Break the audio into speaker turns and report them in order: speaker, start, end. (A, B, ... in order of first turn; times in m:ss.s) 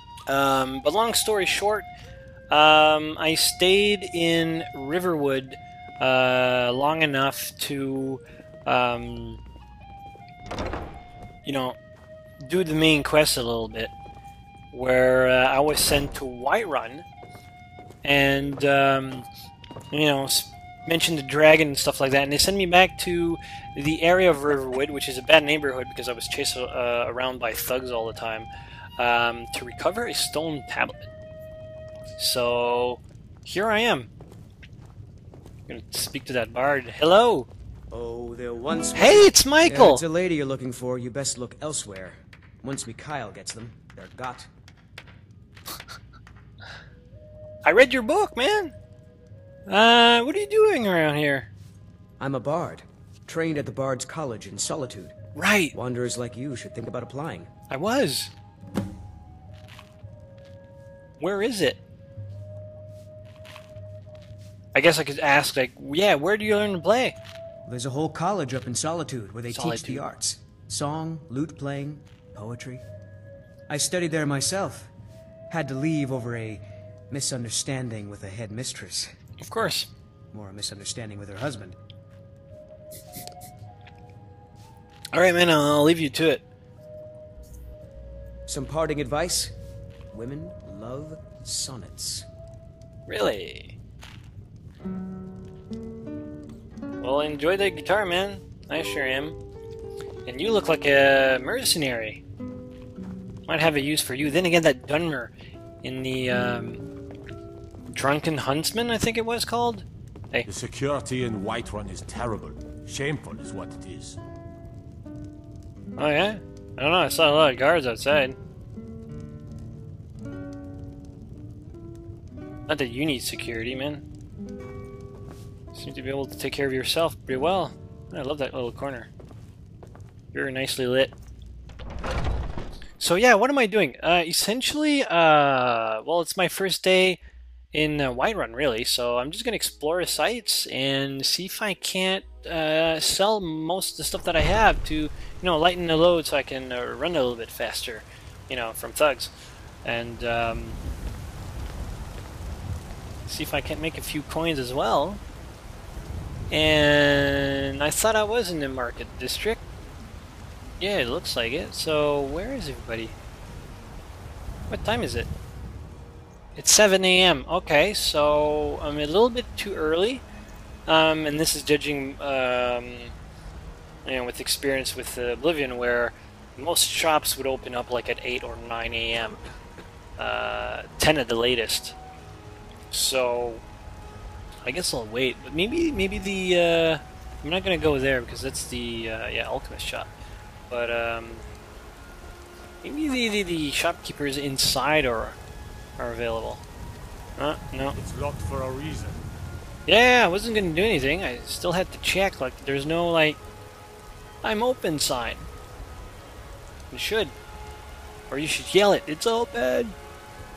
0:00.3-0:01.9 A
0:02.5-0:09.4 A
0:11.4-0:11.8 A
0:12.4-0:13.9 A
0:14.7-0:17.0 A
0:18.0-0:19.2 A
0:19.9-0:28.5 A
0:29.0-0:31.1 A
0:32.2-0:34.1 A
0:35.7-0:37.5 A
0:37.9-0:44.5 B
0:39.0-0:40.0 A
0:47.6-0:48.7 A
0:49.7-0:51.5 A
0:52.2-0:55.1 B
0:55.3-0:55.7 A
0:55.7-0:57.5 B
0:57.7-0:58.3 A
1:01.2-1:01.8 A
1:04.8-1:07.2 A
1:07.7-1:12.8 B
1:09.5-1:10.0 A
1:13.7-1:14.9 B
1:15.5-1:19.1 B
1:19.4-1:19.9 A
1:20.3-1:21.8 B
1:25.1-1:26.4 A
1:28.5-1:29.5 B
1:30.1-1:32.2 B
1:33.1-1:33.8 A
1:37.0-1:39.4 A
1:40.2-1:42.2 A
1:43.5-1:46.8 A
1:47.9-1:50.5 A
1:50.4-1:54.2 C
1:56.0-1:58.4 A
2:02.7-2:04.0 A
2:05.7-2:09.1 A
2:10.3-2:11.1 A
2:13.0-2:17.2 A
2:17.7-2:29.3 A
2:29.8-2:30.8 A
2:33.3-2:35.2 A
2:36.5-2:39.6 A
2:40.8-2:43.2 A
2:44.7-2:45.3 A
2:46.6-2:50.2 A
2:50.9-2:53.1 A
2:54.0-2:59.4 A
3:00.2-3:02.0 A
3:02.9-3:03.6 A
3:04.6-3:10.1 A
3:10.7-3:11.4 A
3:12.8-3:15.4 A
3:16.0-3:16.6 A
3:17.4-3:18.0 A
3:18.0-3:19.2 C
3:19.9-3:23.4 A
3:24.4-3:25.5 A
3:26.9-3:27.3 A
3:28.3-3:30.0 A